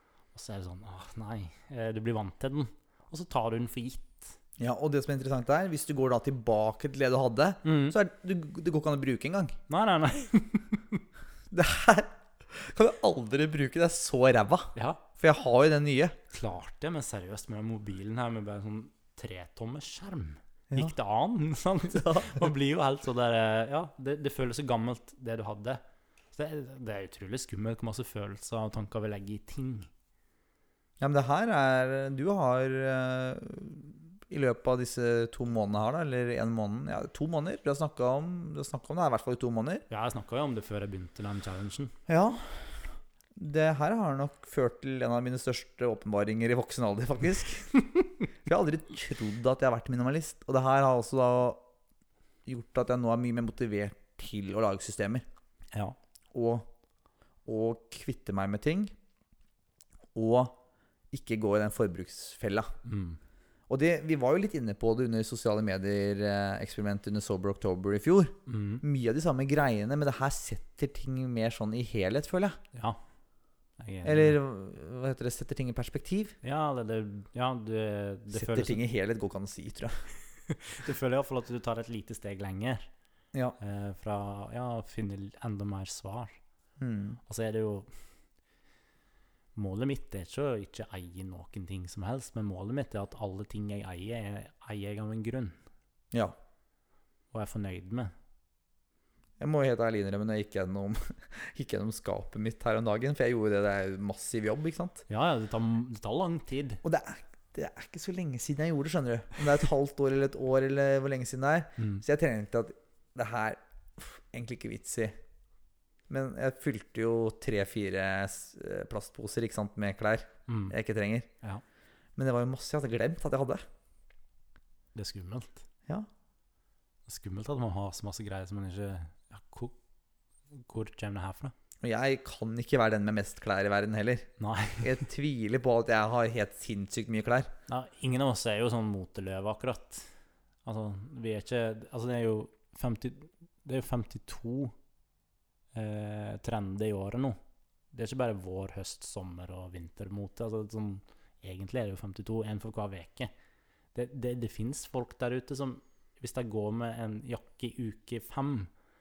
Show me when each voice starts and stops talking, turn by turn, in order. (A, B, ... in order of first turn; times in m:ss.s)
0:00.3-0:04.4 A
0:04.6-0:09.6 B
0:07.6-0:08.0 A
0:09.7-0:11.0 A
0:11.5-0:16.2 B
0:14.8-0:15.0 A
0:16.3-0:25.8 A
0:21.9-0:22.5 B
0:26.3-0:29.9 A
0:31.0-0:39.8 B
0:39.9-0:41.9 A
0:42.1-0:42.8 B
0:43.4-0:47.7 B
0:48.4-0:51.6 B
0:52.5-0:55.2 B
0:56.3-0:56.7 B
0:57.5-0:58.9 B
1:00.2-1:00.6 B
1:01.1-1:02.7 B
1:02.8-1:03.2 A
1:03.7-1:12.6 B
1:08.5-1:08.8 A
1:13.8-1:14.4 A
1:14.0-1:16.4 B
1:16.4-1:18.8 A
1:18.3-1:20.0 B
1:20.5-1:22.9 A
1:23.6-1:26.4 A
1:26.8-1:27.2 B
1:27.3-1:27.9 A
1:29.6-1:35.6 A
1:37.3-1:38.1 A
1:39.4-1:45.0 B
1:45.1-1:46.8 A
1:46.8-1:55.2 B
1:51.8-1:52.0 A
1:56.1-2:01.3 B
2:00.5-2:00.8 A
2:02.2-2:03.6 B
2:05.0-2:05.6 A
2:07.1-2:09.8 A
2:10.5-2:11.5 A
2:11.8-2:14.3 B
2:14.4-2:15.0 A
2:14.8-2:17.5 B
2:17.7-2:20.1 A
2:20.6-2:24.7 A
2:25.7-2:27.4 A
2:27.9-2:33.3 A
2:33.9-2:38.7 A